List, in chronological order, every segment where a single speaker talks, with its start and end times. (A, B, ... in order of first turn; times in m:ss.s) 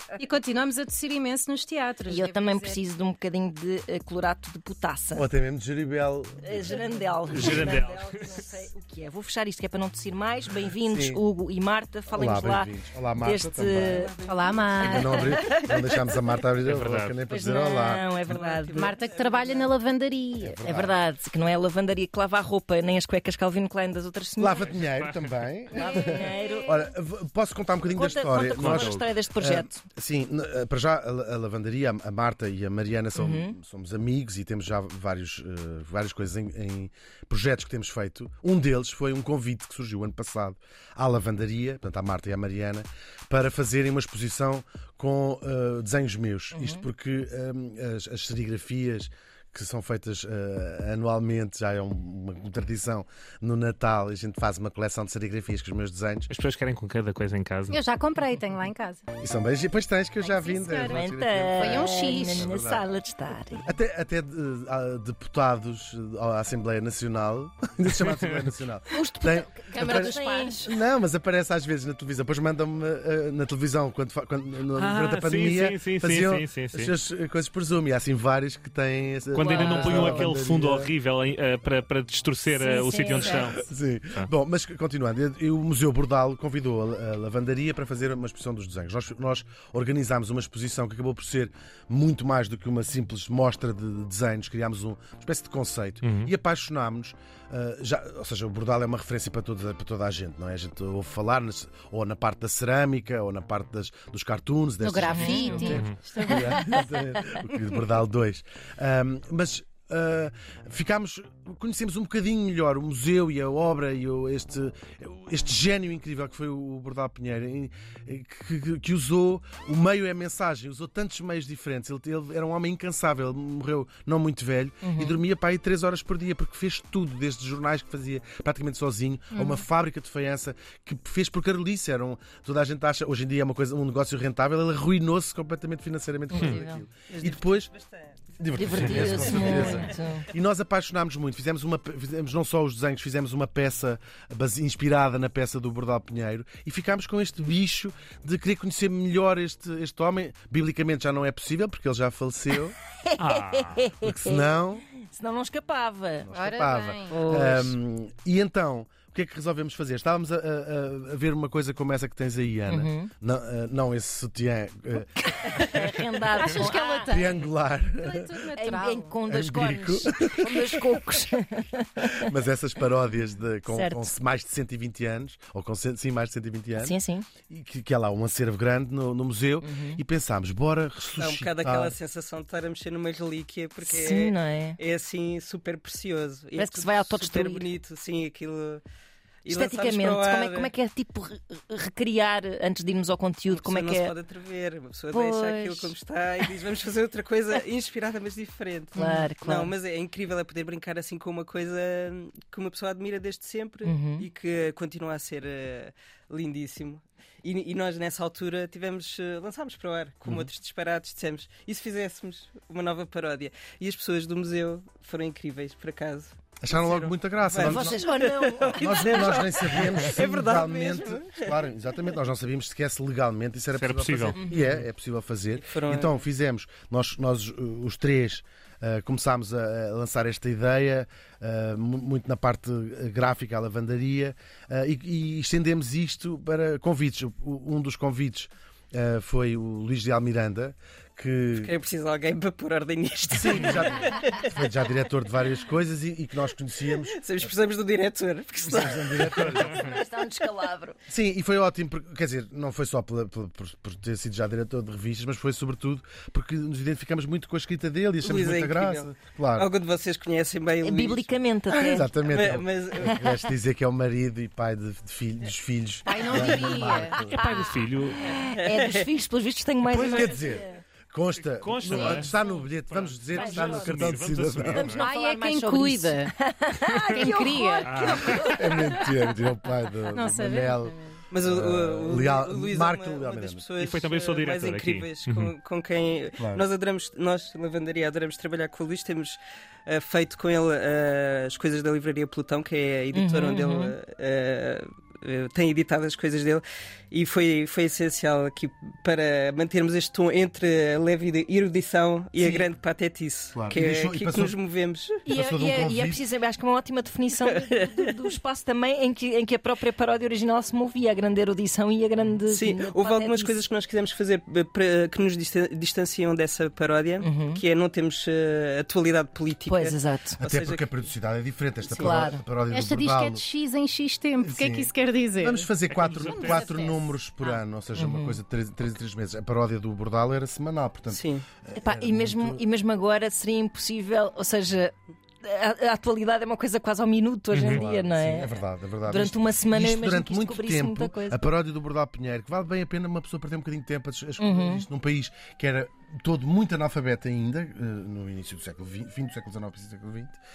0:00.2-0:02.8 A
0:02.1-0:05.3 B
0:05.1-0:06.8 C
0:06.4-0:14.2 B
0:07.3-0:08.4 D
0:07.3-0:07.8 C
0:10.8-0:11.2 C
0:12.1-0:14.1 C
0:13.8-0:16.2 E
0:14.2-0:15.0 A
0:14.8-0:18.0 C
0:14.9-0:15.6 B
0:16.7-0:17.2 D
0:17.3-0:19.0 B
0:18.3-0:19.8 E
0:18.8-0:20.8 A
0:20.4-0:20.9 C
0:20.6-0:24.6 B
0:24.4-0:56.3 C
0:24.6-0:25.4 D
0:25.7-0:26.9 B
0:27.9-0:29.8 B
0:28.6-0:29.1 D
0:33.1-0:33.6 B
0:46.5-0:46.8 B
0:56.3-0:57.8 D
0:57.7-0:59.0 A
0:59.2-1:02.9 C
1:00.2-1:02.5 A
1:00.8-1:03.7 B
1:03.7-1:20.9 C
1:08.9-1:10.6 B
1:09.7-1:10.7 A
1:14.7-1:16.9 D
1:19.3-1:24.3 D
1:19.4-1:20.3 B
1:22.5-1:23.5 B
1:23.2-2:17.7 C
1:36.0-1:36.3 D
1:44.8-1:46.5 A
1:45.0-1:45.6 B
1:45.6-1:46.0 D
1:46.3-1:47.2 B
2:04.8-2:05.2 B
2:09.3-2:09.6 A
2:16.3-2:16.8 B
2:16.3-2:16.6 D
2:17.0-2:18.2 E
2:18.4-2:32.7 C
2:18.6-2:20.3 B
2:18.8-2:19.0 D
2:18.9-2:20.0 E
2:33.1-2:36.3 B
2:33.2-2:33.8 D
2:34.0-2:34.9 C
2:36.2-2:45.8 C
2:36.3-2:37.2 A
2:37.1-2:37.8 B
2:42.7-2:43.1 B
2:45.2-2:47.2 B
2:46.4-2:47.4 A
2:47.1-2:48.5 C
2:48.0-2:49.2 A
2:48.5-2:52.3 B
2:49.3-2:51.0 C
2:52.0-3:02.0 C
2:53.7-2:54.1 B
2:56.8-2:57.3 B
2:59.6-3:00.0 B
3:01.2-3:08.8 E
3:03.8-3:04.8 B
3:06.6-3:07.7 B
3:09.4-3:10.7 E
3:09.5-3:14.1 B
3:13.5-3:41.5 E
3:15.1-3:15.9 B
3:19.0-3:19.3 A
3:19.0-3:19.7 B
3:23.8-3:24.3 B
3:36.6-3:38.0 C
3:37.6-3:39.8 B
3:38.7-4:01.7 C
3:43.7-3:44.4 D
3:44.4-3:44.8 B
3:45.6-3:46.2 E
4:01.6-4:04.5 E
4:03.3-4:07.5 C
4:07.0-4:09.9 E
4:08.7-4:10.0 C
4:09.7-4:11.0 B
4:11.1-4:19.7 C
4:18.2-4:23.2 E
4:20.8-4:22.1 B
4:21.8-4:27.6 C
4:23.0-4:23.4 B
4:26.1-4:27.2 A
4:26.6-4:27.4 B
4:27.2-4:28.2 D
4:28.1-4:30.8 B
4:28.5-4:29.0 E
4:29.8-4:34.9 C
4:31.4-4:32.3 D
4:31.9-4:32.5 B
4:32.8-4:35.1 D
4:33.3-4:38.9 B
4:35.0-4:36.3 A
4:36.9-4:37.3 D
4:37.1-4:38.1 A
4:37.8-4:38.5 D
4:38.2-4:43.6 C
4:40.1-4:41.1 A
4:41.3-5:05.2 E
4:43.8-4:45.5 D
4:46.4-4:46.7 C
4:53.1-4:54.0 B
5:02.4-5:02.7 B
5:03.6-5:04.6 C
5:05.3-5:13.6 B
5:05.3-5:06.2 C
5:07.5-5:08.3 E
5:12.5-5:21.0 E
5:17.2-5:17.6 B
5:19.7-5:20.4 B
5:20.4-5:23.4 C
5:21.8-5:22.3 E
5:22.0-5:22.4 B
5:22.7-5:25.7 A
5:24.4-5:32.6 C
5:25.9-5:26.8 D
5:27.4-5:28.4 B
5:31.1-5:31.4 E
5:31.8-5:41.4 B
5:37.5-5:37.8 D
5:37.7-5:50.4 C
5:44.4-5:44.8 B